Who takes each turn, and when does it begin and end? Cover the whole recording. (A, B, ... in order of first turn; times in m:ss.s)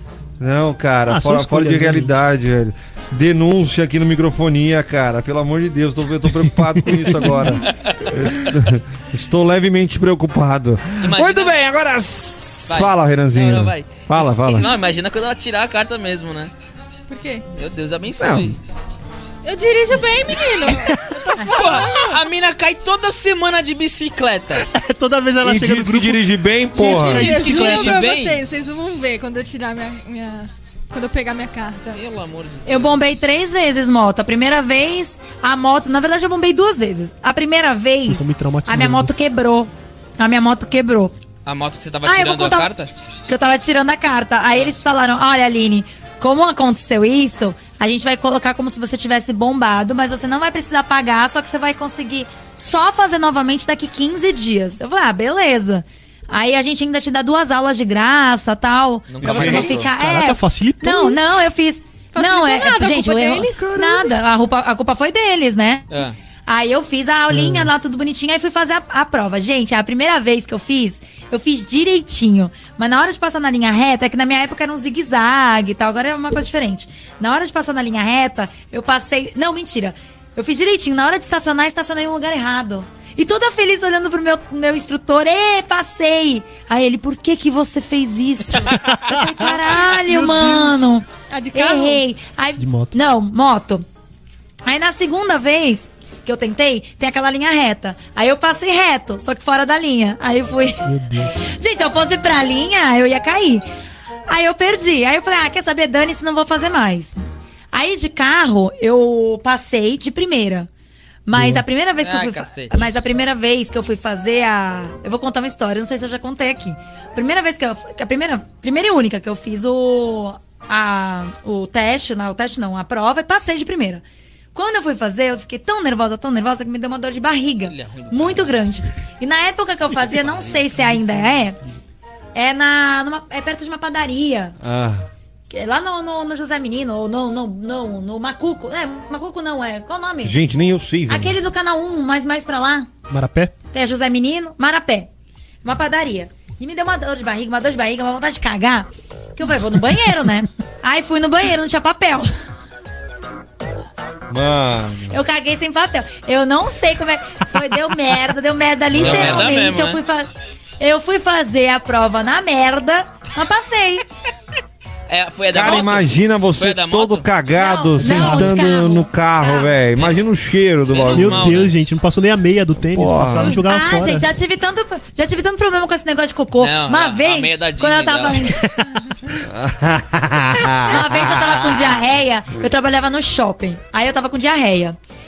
0:00.4-0:14.7 A
0:01.1-0:02.1 B
0:06.3-0:07.6 B
0:07.6-0:08.3 C
0:11.0-0:11.6 C
0:12.7-0:16.5 C
0:17.1-0:17.5 D
0:17.5-0:18.6 C
0:18.2-0:18.6 A
0:19.4-0:22.2 D
0:21.5-0:24.6 C
0:24.6-0:28.0 B
0:25.4-0:27.4 A
0:26.8-0:28.4 C
0:26.8-0:32.0 D
0:31.9-0:33.0 C
0:32.6-0:41.1 E
0:38.1-0:39.1 B
0:41.4-0:42.9 C
0:42.0-0:42.7 E
0:43.3-1:05.9 E
0:59.1-0:59.8 C
0:59.2-0:59.9 A
0:59.2-1:01.2 B
1:02.1-1:03.7 D
1:03.6-1:04.1 B
1:05.9-1:06.2 C
1:06.4-1:33.8 E
1:07.3-1:07.7 B
1:28.7-1:30.9 B
1:31.3-1:32.0 D
1:32.6-1:33.0 B
1:34.6-1:43.7 E
1:40.8-1:41.5 B
1:44.3-1:47.2 E
1:47.7-1:50.7 E
1:51.2-2:04.0 E
1:51.3-1:51.6 B
1:52.0-1:52.8 C
2:04.5-2:11.6 E
2:07.7-2:08.6 C
2:10.0-2:10.7 C
2:12.3-2:14.5 E
2:14.6-2:15.1 A
2:15.5-2:20.4 E
2:20.2-2:21.4 A
2:21.1-2:22.9 E
2:23.1-2:23.5 B
2:23.7-2:25.1 E
2:25.6-2:32.3 E
2:34.3-2:35.2 A
2:35.1-2:44.0 E
2:38.9-2:39.6 A
2:38.9-2:40.0 C
2:45.1-2:47.3 C
2:45.5-2:51.7 A
2:47.5-2:49.7 E
2:48.0-2:48.6 B
2:49.9-2:50.2 C
2:50.9-2:51.7 C
2:51.1-2:54.3 B
2:52.8-2:53.6 A
2:53.4-2:58.7 E
2:56.6-2:58.6 C
2:59.4-3:01.9 A
3:00.8-3:05.0 E